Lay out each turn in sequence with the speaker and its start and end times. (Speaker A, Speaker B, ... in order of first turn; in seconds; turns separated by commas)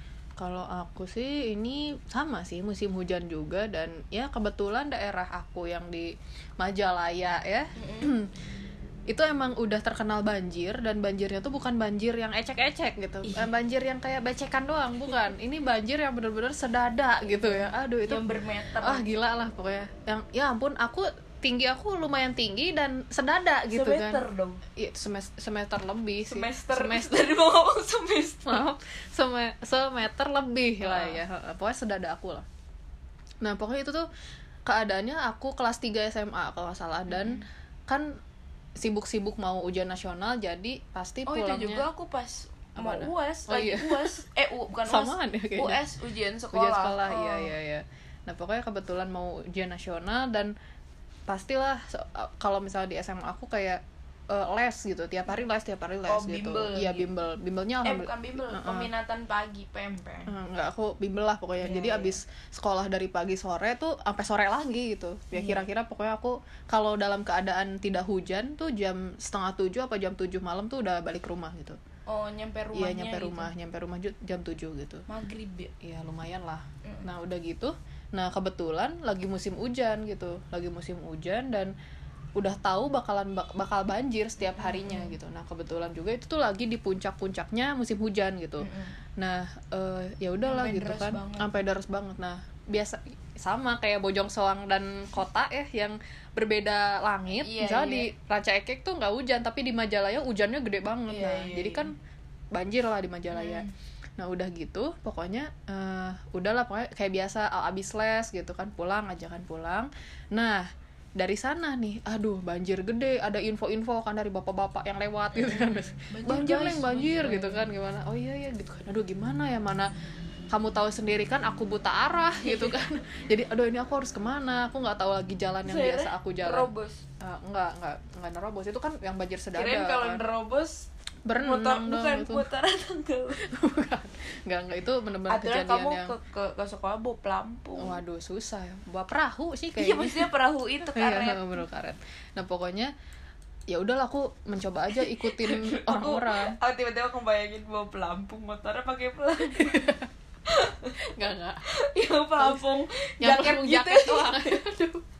Speaker A: 0.4-8.3, Speaker B: 7.8-8.1, Speaker A: 9.1-18.2, Speaker B: 17.4-19.1, Speaker A: 18.8-24.2, Speaker B: 23.7-24.6, Speaker A: 24.8-27.3, Speaker B: 26.3-28.7, Speaker A: 28.4-32.5, Speaker B: 30.8-31.2, Speaker A: 33.4-34.0, Speaker A: 34.6-38.2, Speaker B: 37.1-37.4, Speaker A: 38.8-41.9, Speaker B: 41.3-47.5, Speaker A: 42.8-44.2, Speaker A: 44.9-45.8, Speaker A: 46.5-50.5, Speaker A: 51.3-58.9, Speaker B: 56.1-57.1, Speaker B: 57.8-60.3, Speaker A: 60.3-71.8, Speaker B: 61.6-62.1, Speaker B: 65.3-65.6, Speaker B: 72.1-73.5, Speaker A: 72.7-75.0, Speaker B: 75.1-75.7, Speaker A: 75.8-81.7, Speaker A: 82.3-101.9, Speaker B: 84.4-85.2, Speaker B: 88.6-89.0, Speaker B: 90.4-91.5, Speaker B: 97.3-98.1, Speaker B: 101.1-101.9, Speaker A: 102.5-103.7, Speaker B: 103.3-103.7, Speaker A: 104.2-119.9, Speaker B: 115.3-117.7, Speaker A: 120.5-130.2, Speaker B: 122.4-122.9, Speaker B: 125.6-127.0, Speaker B: 129.5-133.5, Speaker A: 131.2-132.5, Speaker A: 133.4-136.1, Speaker B: 135.3-138.0, Speaker A: 137.8-140.3, Speaker B: 139.8-141.6, Speaker A: 140.8-142.9, Speaker A: 143.7-146.6, Speaker B: 144.9-151.0, Speaker A: 149.5-150.1, Speaker A: 151.1-151.6, Speaker B: 151.7-154.6, Speaker A: 153.2-155.0